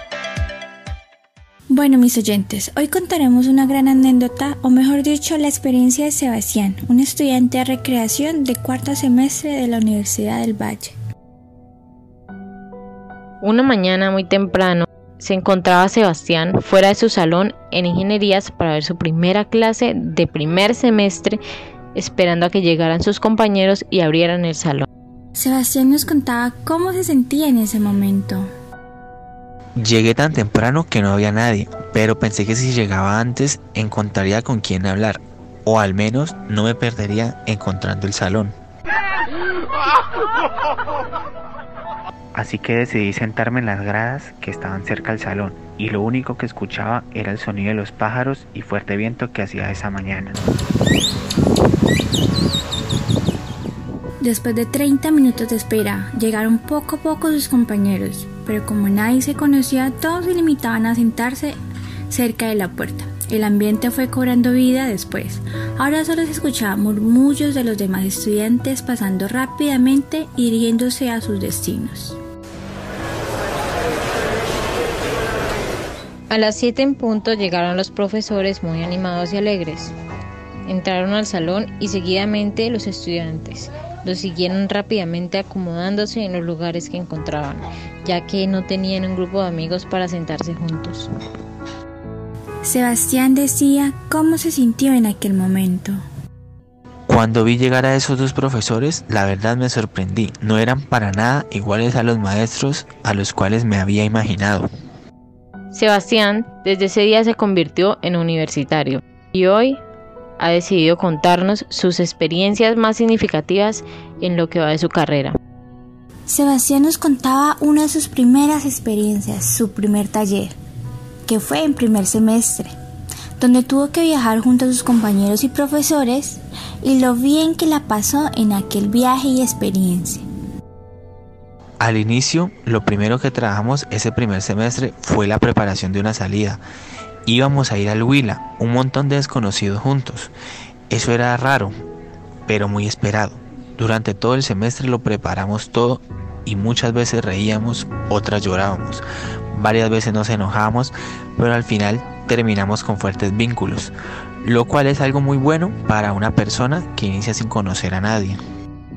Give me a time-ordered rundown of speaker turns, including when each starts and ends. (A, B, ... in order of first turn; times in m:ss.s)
0:01.7-0:11.0 A
0:13.4-0:21.4 B
0:21.9-0:24.9 B
0:25.4-0:28.5 A
0:29.8-0:38.6 C
0:42.3-0:50.4 C
0:54.2-1:01.6 A
1:02.1-1:12.2 A
1:16.3-1:19.9 B
1:20.6-1:31.1 B
1:32.6-1:36.0 A
1:37.1-1:44.7 C
1:45.7-1:49.8 B
1:50.4-1:55.4 B
1:56.3-2:00.6 A
2:01.2-2:02.7 A
2:03.4-2:10.2 A
2:11.8-2:16.6 C
2:17.2-2:20.3 C
2:20.9-2:21.8 C
2:22.5-2:38.4 C